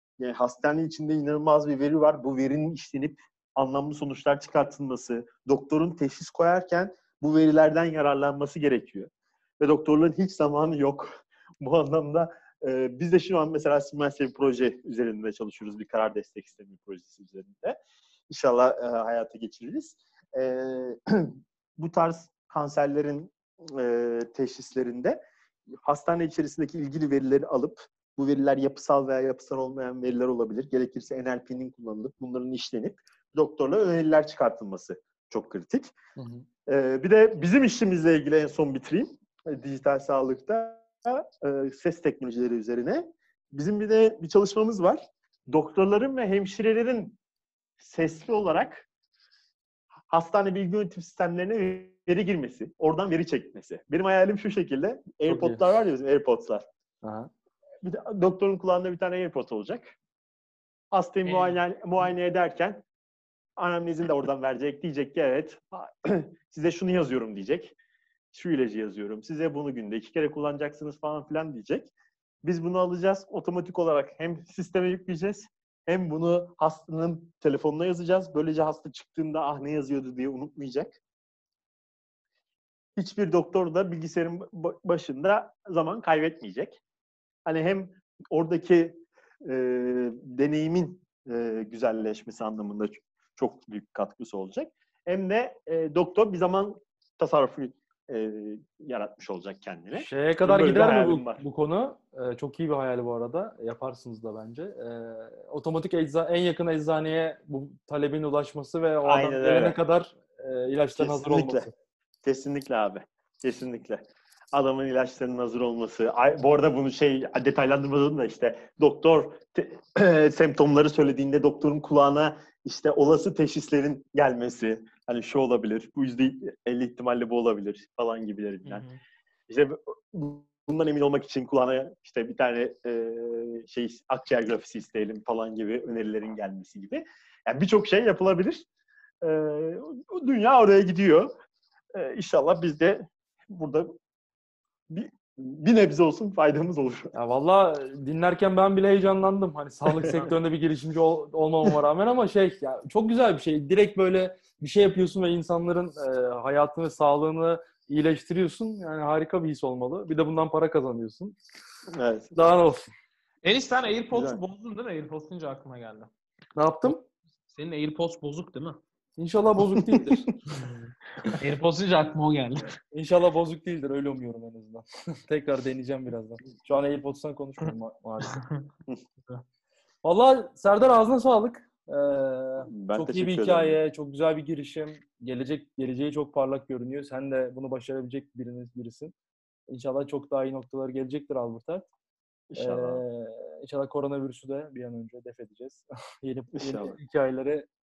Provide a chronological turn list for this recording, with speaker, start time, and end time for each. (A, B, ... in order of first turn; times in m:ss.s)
0:00.2-0:17.8 A
0:18.3-0:25.2 A
0:25.8-0:35.9 A
0:36.2-0:36.5 B
0:36.7-0:47.2 A
0:47.8-0:48.8 A
0:50.1-0:56.6 A
0:55.3-0:55.6 B
0:57.0-0:57.3 B
0:57.8-1:00.0 A
1:00.9-1:02.8 A
1:01.3-1:01.6 C
1:03.6-1:07.8 A
1:08.3-1:11.9 A
1:12.4-1:21.0 A
1:23.0-1:26.8 A
1:27.5-1:41.4 A
1:40.0-1:51.7 B
1:49.0-1:49.8 A
1:51.0-1:51.7 A
1:52.2-1:54.0 A
1:54.5-2:08.8 A
2:08.6-2:09.0 C
2:09.5-2:18.6 A
2:19.2-2:21.3 A
2:21.9-2:24.0 A
2:24.9-2:27.1 A
2:27.1-2:41.4 B
2:29.9-2:30.2 A
2:41.9-2:42.3 A
2:42.3-2:42.9 B
2:43.4-2:46.1 C
2:44.1-2:44.4 A
2:46.6-2:47.0 B
2:47.5-2:48.8 C
2:49.2-2:50.3 B
2:49.8-2:50.3 A
2:51.3-2:52.7 C
2:52.9-2:58.4 B
2:58.2-2:58.6 C
3:00.0-3:09.1 B
3:02.7-3:03.8 A
3:09.7-3:11.9 B
3:12.5-3:13.0 A
3:12.6-3:17.7 B
3:16.6-3:17.0 A